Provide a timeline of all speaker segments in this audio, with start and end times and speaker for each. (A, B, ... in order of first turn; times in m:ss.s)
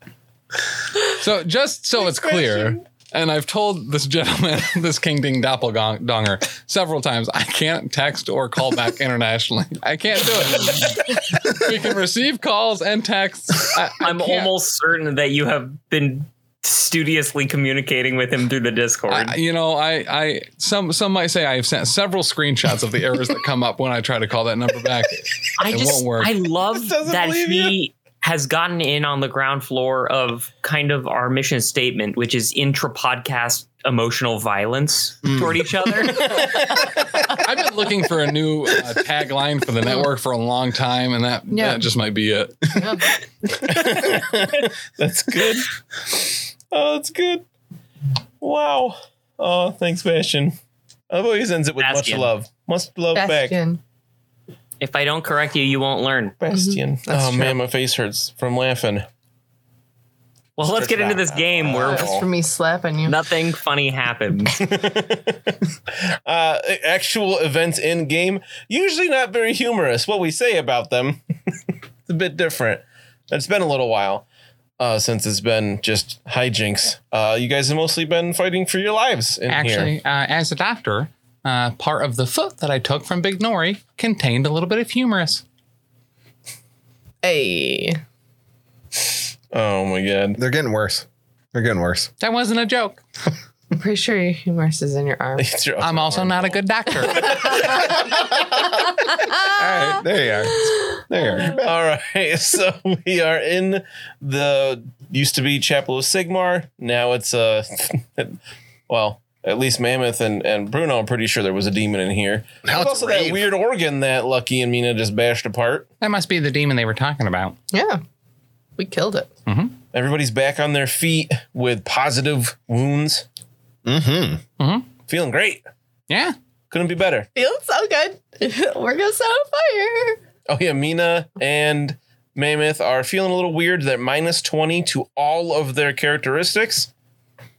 0:01.1-0:14.5 A
0:02.0-0:02.8 B
0:14.0-0:19.4 C
0:19.1-0:26.3 A
0:25.6-0:36.6 C
0:26.7-0:27.8 B
0:35.2-0:35.6 D
0:36.1-0:36.9 B
0:37.3-0:42.8 A
0:41.5-0:41.8 E
0:42.8-0:43.1 E
0:43.5-0:46.2 B
0:46.7-0:47.4 B
0:48.4-0:50.6 B
0:51.1-0:53.6 B
0:51.8-0:52.3 C
0:53.1-0:53.8 E
0:54.8-0:56.4 C
0:56.4-0:59.1 B
0:56.5-0:57.6 E
1:00.6-1:02.2 C
1:00.6-1:02.3 B
1:01.8-1:03.2 E
1:03.1-1:04.7 C
1:04.6-1:05.5 B
1:06.2-1:11.2 B
1:12.1-1:14.3 B
1:14.8-1:19.9 B
1:19.5-1:25.4 A
1:27.2-1:28.0 E
1:29.5-1:30.4 B
1:30.4-1:32.1 D
1:32.2-1:33.0 A
1:33.7-1:35.4 E
1:35.4-1:38.4 B
1:35.8-1:37.8 A
1:39.0-1:40.0 E
1:39.5-1:41.8 D
1:40.5-1:41.5 E
1:41.5-1:48.4 B
1:48.9-1:55.9 B
1:52.6-1:53.5 D
1:56.0-1:57.6 A
1:57.7-1:58.0 E
1:58.8-1:59.3 E
1:59.5-1:59.8 A
1:59.9-2:03.3 B
2:03.8-2:04.4 D
2:04.6-2:04.9 A
2:05.1-2:05.7 B
2:06.1-2:06.4 A
2:06.7-2:07.3 B
2:07.4-2:10.2 E
2:10.5-2:16.9 B